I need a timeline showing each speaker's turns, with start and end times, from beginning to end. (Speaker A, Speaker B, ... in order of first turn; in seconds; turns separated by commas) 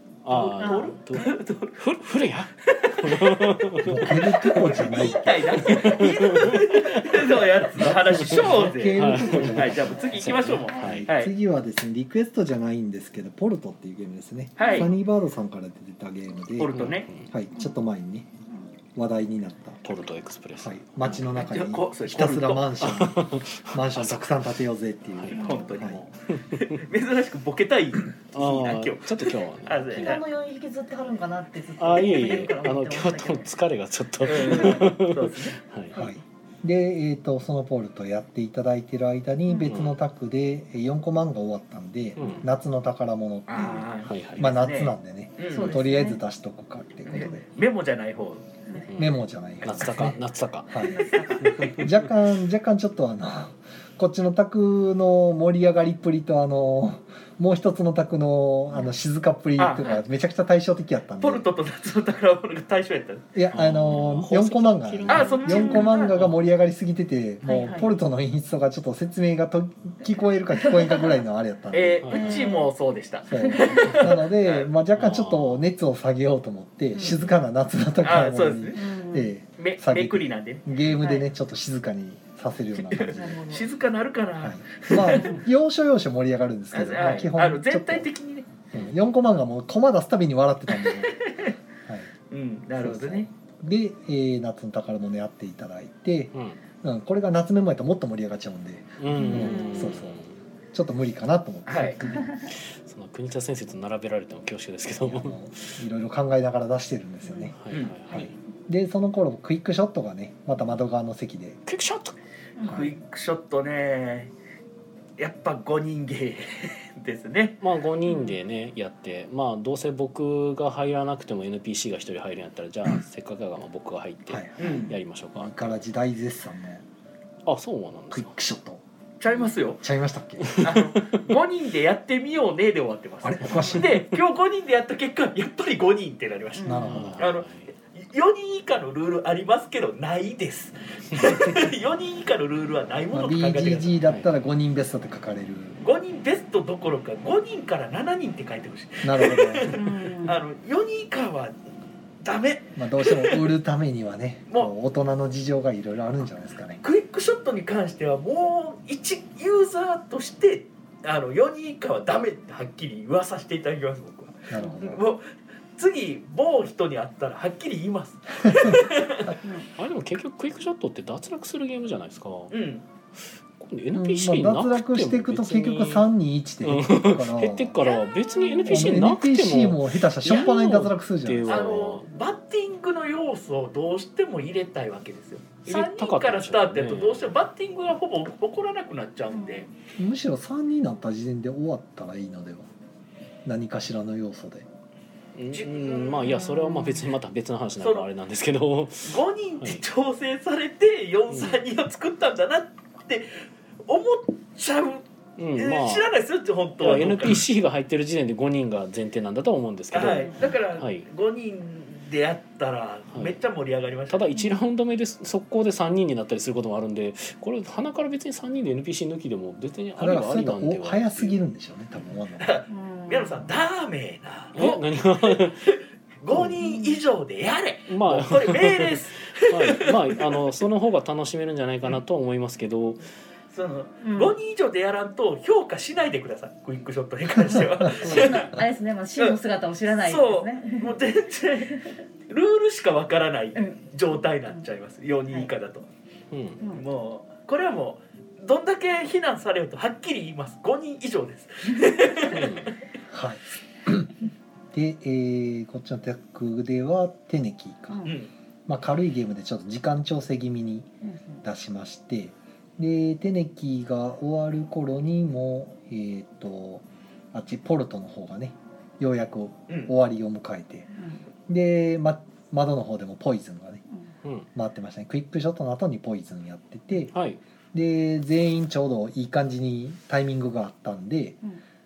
Speaker A: 0.2-4.6, Speaker B: 0.3-1.9, Speaker C: 0.6-1.0, Speaker B: 2.6-11.3, Speaker D: 3.8-6.0, Speaker A: 5.6-7.4, Speaker D: 7.8-18.3, Speaker A: 8.1-11.1, Speaker B: 14.6-14.9, Speaker C: 14.6-14.9, Speaker B: 16.6-17.1, Speaker A: 16.7-17.3, Speaker D: 18.9-19.9, Speaker A: 19.8-21.4, Speaker D: 20.6-26.0, Speaker B: 21.3-22.9, Speaker A: 22.8-24.6, Speaker C: 25.3-25.7, Speaker B: 25.3-30.2, Speaker A: 26.3-26.8, Speaker A: 28.3-30.2, Speaker C: 29.9-33.5, Speaker A: 31.8-36.0, Speaker B: 34.2-35.6, Speaker C: 34.3-34.9, Speaker C: 35.9-36.2, Speaker D: 35.9-47.5, Speaker A: 39.6-40.0, Speaker A: 42.2-42.5, Speaker B: 43.5-45.8, Speaker C: 43.6-43.9, Speaker A: 44.0-44.6, Speaker C: 45.5-46.2, Speaker B: 47.1-48.5, Speaker A: 48.9-50.8, Speaker D: 49.0-61.5, Speaker C: 50.8-51.7, Speaker A: 51.4-51.9, Speaker C: 58.7-59.0, Speaker B: 59.6-60.0, Speaker B: 61.2-63.3, Speaker D: 63.4-72.3, Speaker A: 63.5-66.4, Speaker B: 65.1-66.1, Speaker C: 65.1-66.1, Speaker C: 67.4-68.0, Speaker C: 70.6-71.2, Speaker B: 71.7-74.7, Speaker A: 72.0-72.5, Speaker C: 72.1-72.7, Speaker D: 73.3-83.4, Speaker C: 73.3-74.0, Speaker A: 74.9-75.7, Speaker C: 77.0-77.2, Speaker B: 78.0-78.8, Speaker C: 78.8-79.3, Speaker B: 79.6-80.6, Speaker C: 80.9-81.3, Speaker B: 82.8-85.4, Speaker C: 83.2-83.7, Speaker D: 84.4-88.1, Speaker C: 85.2-85.4, Speaker B: 86.7-88.5, Speaker D: 88.7-91.2, Speaker B: 90.7-91.5, Speaker B: 92.3-93.3, Speaker D: 92.8-100.2, Speaker A: 96.3-96.6, Speaker A: 99.0-100.4, Speaker C: 99.1-99.9, Speaker D: 100.7-102.3, Speaker B: 101.7-102.0, Speaker C: 102.1-102.5, Speaker A: 102.5-105.8, Speaker D: 105.0-107.6, Speaker C: 107.2-107.5, Speaker A: 107.6-108.3, Speaker B: 107.7-108.0, Speaker D: 108.1-111.6, Speaker A: 111.7-112.2, Speaker C: 112.6-112.8, Speaker B: 112.6-114.3, Speaker D: 112.7-112.9, Speaker B: 115.2-117.6, Speaker A: 117.6-125.7, Speaker C: 118.1-118.4, Speaker D: 124.3-124.8, Speaker B: 124.6-124.9, Speaker D: 125.3-126.8, Speaker A: 127.5-128.3, Speaker D: 128.1-128.8, Speaker B: 129.2-129.8, Speaker C: 129.3-129.5, Speaker D: 129.8-130.6, Speaker A: 130.5-131.2, Speaker B: 130.6-144.0, Speaker D: 133.2-134.0, Speaker C: 136.6-137.0, Speaker D: 136.6-137.2, Speaker A: 136.9-137.7, Speaker D: 143.1-145.8, Speaker B: 145.8-151.6, Speaker D: 149.0-149.8, Speaker C: 149.7-150.4, Speaker B: 152.2-153.4, Speaker D: 152.8-156.8, Speaker B: 156.8-165.3, Speaker D: 164.5-165.1, Speaker B: 165.8-169.4, Speaker D: 168.5-168.8, Speaker C: 169.4-169.7, Speaker A: 169.8-172.6, Speaker B: 172.5-172.8, Speaker A: 173.6-176.1, Speaker D: 173.9-177.8, Speaker A: 176.6-182.1, Speaker C: 177.8-179.1, Speaker D: 178.7-181.8, Speaker B: 181.5-189.7, Speaker A: 185.7-187.3, Speaker C: 189.3-189.7, Speaker D: 190.0-192.7, Speaker D: 193.4-194.7, Speaker A: 195.3-199.8, Speaker B: 195.5-196.4, Speaker C: 196.3-197.1, Speaker B: 197.8-198.1, Speaker B: 199.0-205.0, Speaker A: 201.3-201.6, Speaker A: 205.4-206.1, Speaker B: 205.6-207.5, Speaker A: 206.8-211.1, Speaker B: 209.9-214.3, Speaker A: 213.1-213.4, Speaker A: 214.1-221.4, Speaker C: 214.3-214.6, Speaker D: 220.0-222.5, Speaker B: 222.4-230.4, Speaker C: 222.7-223.5, Speaker A: 224.5-225.6, Speaker C: 226.6-227.0, Speaker A: 227.9-233.0, Speaker B: 233.5-238.6, Speaker C: 234.0-234.3, Speaker C: 237.9-241.0, Speaker A: 238.0-238.4, Speaker B: 239.9-245.9, Speaker C: 243.6-243.9, Speaker A: 246.3-246.6, Speaker B: 246.7-252.8, Speaker A: 252.3-252.7, Speaker D: 253.1-254.1, Speaker D: 254.7-258.1, Speaker C: 257.9-258.1, Speaker B: 258.1-258.3, Speaker D: 258.7-260.9, Speaker C: 261.0-261.4, Speaker D: 261.4-270.9, Speaker C: 270.9-271.2, Speaker D: 271.5-273.8, Speaker D: 274.5-277.1, Speaker A: 277.1-277.4, Speaker D: 277.7-281.4